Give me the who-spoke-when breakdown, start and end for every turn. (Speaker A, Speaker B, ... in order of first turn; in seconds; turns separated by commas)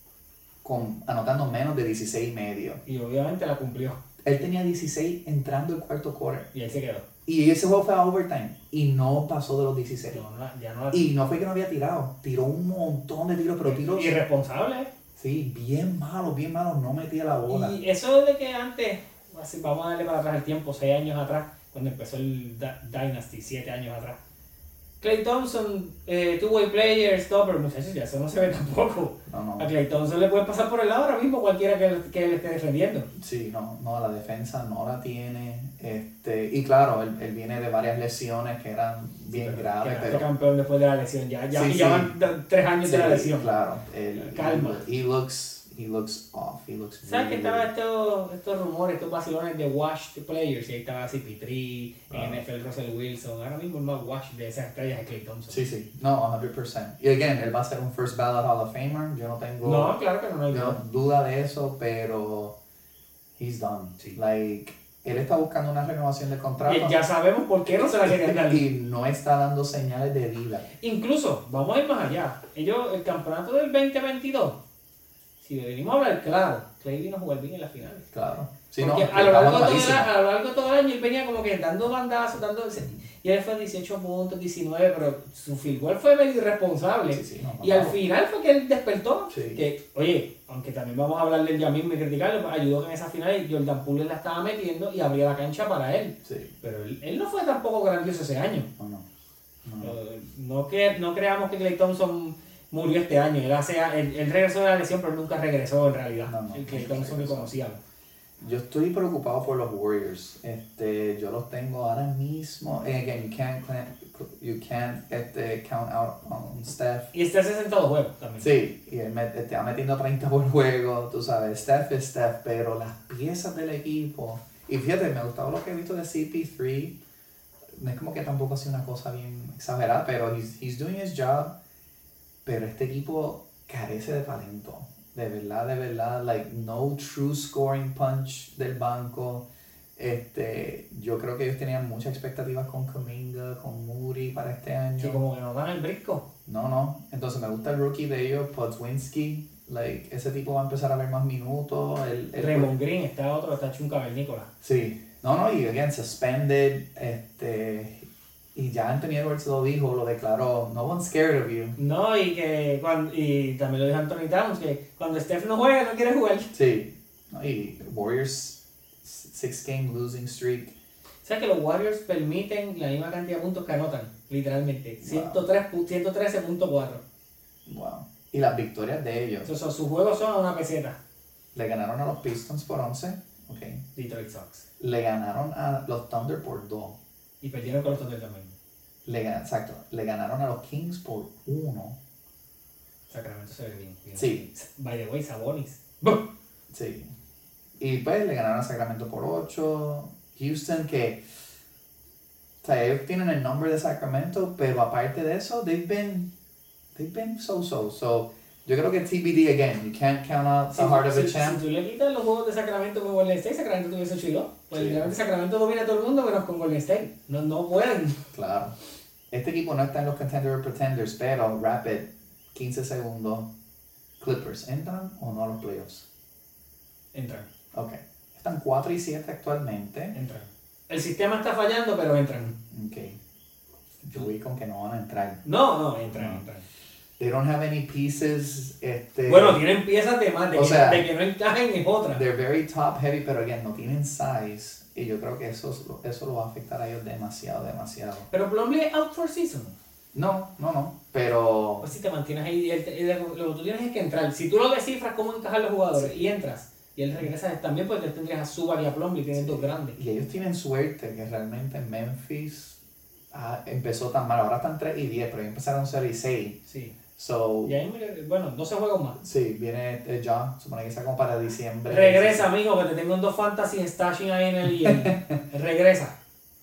Speaker A: 0.6-2.8, Speaker B: 2.9-4.0, Speaker A: 4.2-6.5, Speaker B: 6.5-7.1, Speaker A: 7.3-10.2, Speaker B: 10.1-11.1, Speaker A: 10.9-14.2, Speaker B: 13.7-14.9, Speaker A: 15.2-17.8, Speaker B: 17.5-24.2, Speaker B: 25.0-33.1, Speaker A: 29.3-29.7, Speaker A: 33.1-40.2, Speaker B: 39.3-43.5, Speaker A: 41.5-42.1, Speaker A: 42.8-47.7, Speaker B: 44.2-44.8, Speaker B: 47.0-55.6, Speaker A: 52.1-52.4, Speaker A: 55.5-60.0, Speaker B: 59.6-60.8, Speaker A: 60.5-62.6, Speaker A: 63.4-67.1, Speaker B: 66.6-68.7, Speaker A: 67.7-70.7, Speaker B: 70.8-74.6, Speaker B: 75.4-78.1, Speaker A: 78.1-80.1, Speaker B: 78.8-98.7, Speaker A: 87.1-88.0, Speaker A: 89.3-89.6, Speaker A: 96.2-96.5, Speaker A: 98.8-99.1, Speaker A: 99.6-100.0, Speaker B: 99.8-107.8, Speaker A: 106.3-107.5, Speaker A: 108.4-117.1, Speaker B: 117.1-118.5, Speaker A: 118.4-127.0, Speaker A: 127.7-131.5, Speaker A: 132.4-145.2, Speaker B: 145.0-146.3, Speaker A: 146.5-152.7, Speaker B: 152.4-154.5, Speaker A: 154.6-161.8, Speaker B: 161.8-166.5, Speaker A: 166.5-170.8, Speaker B: 171.2-177.0, Speaker A: 175.0-175.4, Speaker A: 177.7-179.5, Speaker B: 179.4-181.0, Speaker A: 181.5-183.8, Speaker B: 183.9-184.7, Speaker A: 184.8-187.0, Speaker B: 187.4-188.6, Speaker A: 189.1-192.0, Speaker B: 193.1-196.2, Speaker A: 194.2-194.5, Speaker A: 196.7-197.1, Speaker A: 197.8-201.2, Speaker A: 202.6-206.3, Speaker A: 206.9-211.6, Speaker B: 210.7-218.2, Speaker A: 214.7-215.1, Speaker A: 218.3-218.8, Speaker A: 219.3-223.5, Speaker A: 224.2-226.1, Speaker B: 227.1-227.5, Speaker A: 227.7-230.2, Speaker B: 230.1-232.6, Speaker A: 232.7-233.2, Speaker A: 234.0-235.4, Speaker B: 235.4-236.7, Speaker A: 236.1-236.4, Speaker A: 237.2-239.6, Speaker B: 239.3-242.2, Speaker A: 240.5-241.1, Speaker A: 242.1-248.3, Speaker B: 248.3-249.8, Speaker A: 250.1-251.9, Speaker B: 251.8-260.0, Speaker A: 259.4-262.8, Speaker A: 263.3-266.6, Speaker B: 266.7-266.9, Speaker A: 267.2-267.8, Speaker B: 267.6-269.2, Speaker A: 269.2-272.5, Speaker B: 271.9-276.1, Speaker A: 274.7-275.4